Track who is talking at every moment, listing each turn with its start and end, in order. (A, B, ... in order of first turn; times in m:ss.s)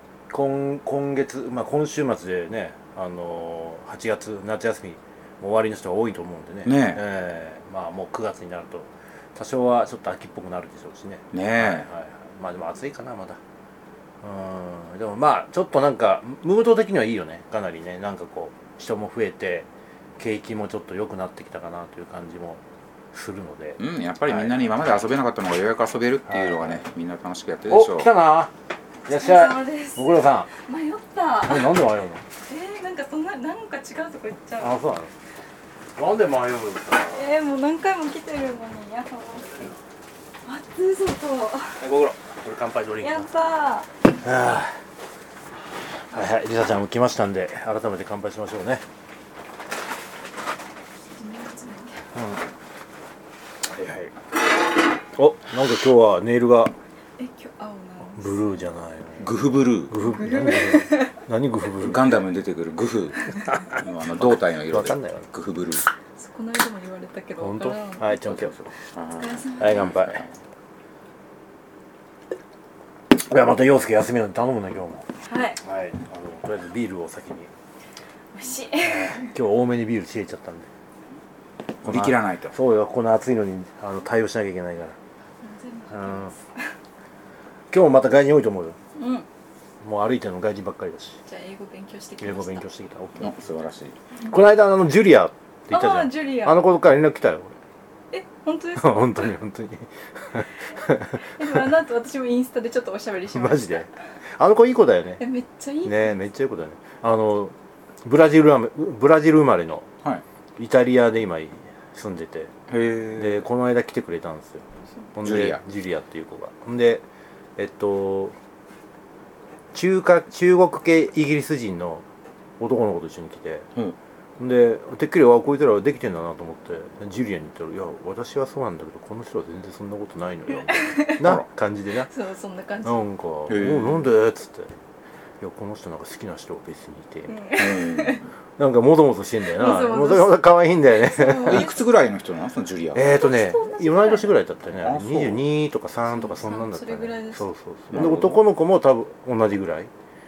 0:00.3-0:13.4 A
0:06.6-0:07.0 B
0:11.3-0:11.9 B
0:14.2-0:19.7 A
0:20.2-0:22.6 A
0:23.1-0:24.6 A
0:23.8-0:28.1 B
0:26.3-0:26.8 A
0:27.7-0:28.5 A
0:29.0-0:30.5 A
0:29.1-0:31.8 C
0:31.4-0:32.2 A
0:32.5-0:34.8 C
0:34.6-0:35.1 A
0:36.0-0:37.3 A
0:37.1-0:39.6 C
0:40.4-0:41.8 C
0:41.8-0:43.3 A
0:43.0-0:43.9 C
0:44.2-0:44.7 A
0:46.1-0:48.8 A
0:51.2-0:52.0 C
0:52.1-0:52.4 A
0:53.7-0:54.1 A
0:55.1-0:56.7 A
0:57.2-0:58.5 C
0:58.1-1:02.0 A
0:59.2-1:00.0 B
1:00.1-1:01.1 C
1:01.8-1:05.8 B
1:04.7-1:05.3 A
1:06.2-1:08.2 C
1:07.4-1:08.6 A
1:08.2-1:10.3 B
1:09.2-1:10.0 C
1:09.6-1:10.2 A
1:13.1-1:15.0 A
1:15.2-1:15.6 C
1:15.6-1:17.5 A
1:18.3-1:19.3 C
1:18.8-1:20.7 A
1:21.8-1:22.5 B
1:21.8-1:25.0 A
1:25.4-1:26.6 C
1:25.9-1:26.3 A
1:27.7-1:28.8 A
1:29.0-1:29.3 C
1:29.8-1:31.2 A
1:31.3-1:32.7 C
1:32.2-1:33.4 A
1:33.2-1:34.0 B
1:34.3-1:37.5 A
1:35.7-1:36.7 C
1:38.1-1:39.3 C
1:38.8-1:41.6 A
1:41.4-1:43.8 C
1:43.3-1:45.2 A
1:45.2-1:46.2 C
1:45.8-1:47.5 A
1:48.0-1:49.9 A
1:50.6-1:52.5 A
1:52.7-1:53.4 B
1:53.1-1:57.0 A
1:55.2-1:55.6 B
1:57.6-1:58.4 A
1:59.7-2:02.0 A
2:02.6-2:03.7 A
2:04.4-2:12.1 A
2:10.7-2:11.2 C
2:12.1-2:13.0 C
2:12.8-2:14.7 A
2:13.5-2:14.1 B
2:15.4-2:17.4 A
2:17.3-2:18.2 C
2:17.5-2:18.3 B
2:18.6-2:21.7 A
2:19.5-2:21.8 C
2:21.4-2:23.3 B
2:22.9-2:29.9 A
2:23.0-2:24.3 C
2:24.8-2:25.4 B
2:26.1-2:27.5 C
2:27.9-2:28.4 B